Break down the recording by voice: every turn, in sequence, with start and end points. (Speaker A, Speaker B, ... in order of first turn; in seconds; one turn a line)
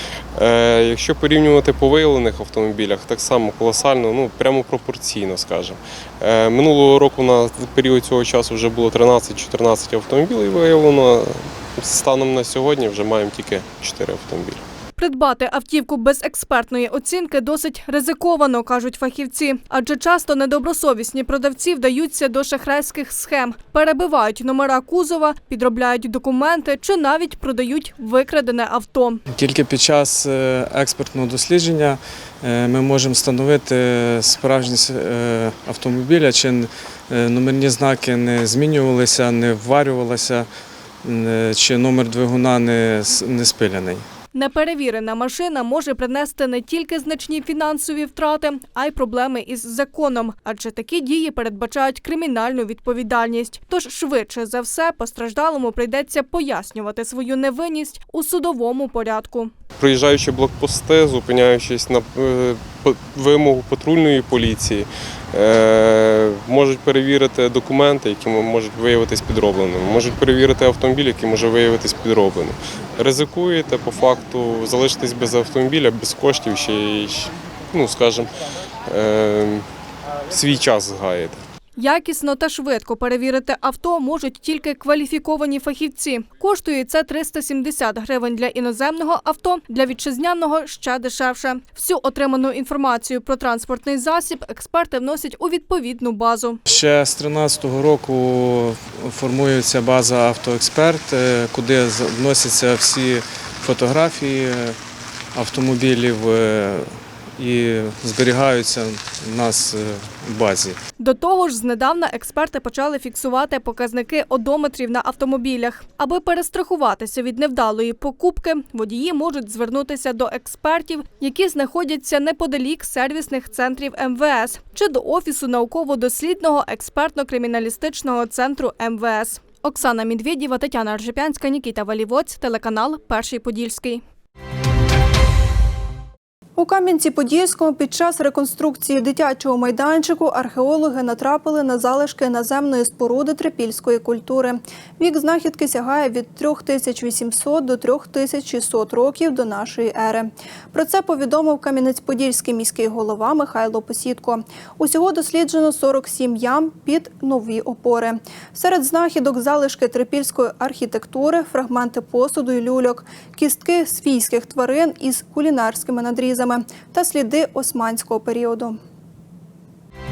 Speaker A: 0.4-14.6
Speaker B: 15.0-29.2
Speaker C: 29.3-40.5
Speaker C: 41.0-44.0
Speaker B: 44.3-59.5
Speaker A: 59.8-78.3
Speaker A: 78.9-79.7
Speaker A: 80.3-81.4
Speaker B: 81.8-96.6
Speaker C: 96.7-104.8
Speaker C: 105.3-106.9
Speaker C: 107.4-110.8
Speaker B: 111.0-134.0
Speaker D: 136.6-168.8